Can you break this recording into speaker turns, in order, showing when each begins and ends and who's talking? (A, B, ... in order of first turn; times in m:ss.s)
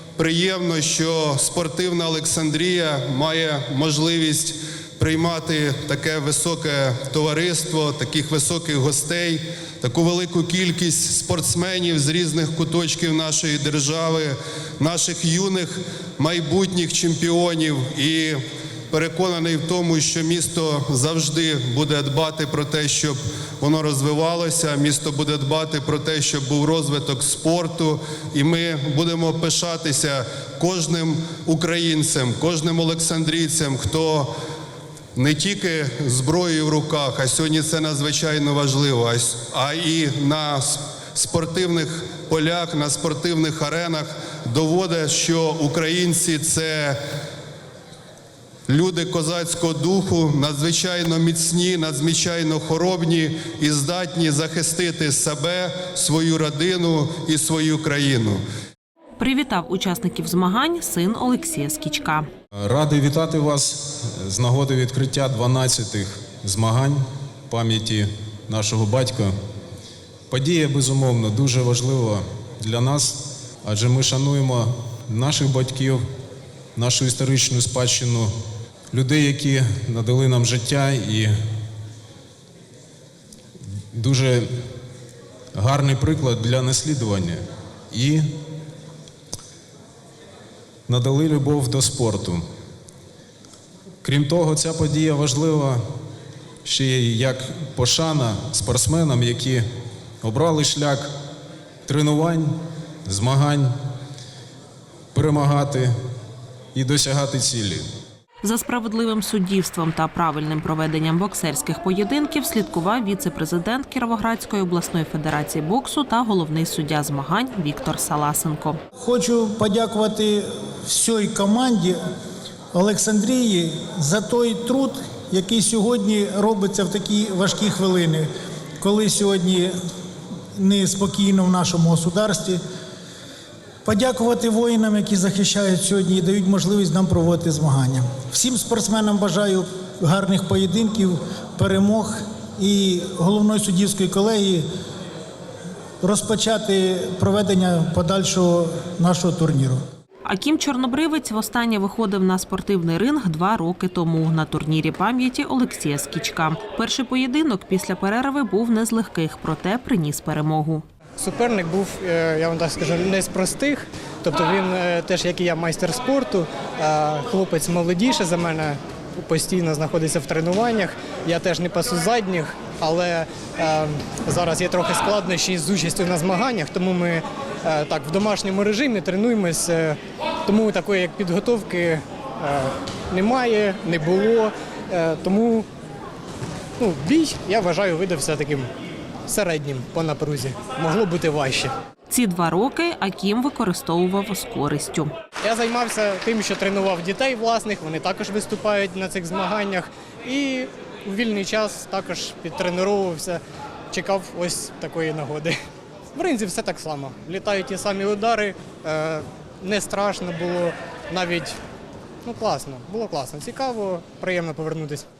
0:00.2-0:18.4 A
0:18.9-0:34.3 A
0:35.1-0:47.0 A
0:48.7-0:58.4 A
0:59.2-1:02.3 B
1:02.6-1:09.3 C
1:10.3-1:16.0 C
1:16.8-1:18.3 C
1:18.9-1:21.3 C
1:23.9-1:24.5 C
1:25.5-1:28.2 C
1:30.9-1:32.4 C
1:34.0-1:35.8 C
1:36.6-1:39.6 C
1:40.2-1:41.1 C
1:41.8-1:43.7 C
1:45.1-1:45.9 C
1:46.7-1:47.8 C
1:48.4-1:58.8 B
1:59.0-2:02.0 D
2:02.7-2:08.3 D
2:08.8-2:09.7 D
2:10.6-2:12.6 D
2:13.8-2:24.7 D
2:26.0-2:29.8 D
2:30.2-2:40.8 B
2:41.2-3:05.7 E
3:06.8-3:08.7 E
3:09.3-3:11.7 E
3:12.1-3:15.1 B
3:15.4-3:25.6 E
3:26.2-3:31.6 E
3:32.2-3:35.1 E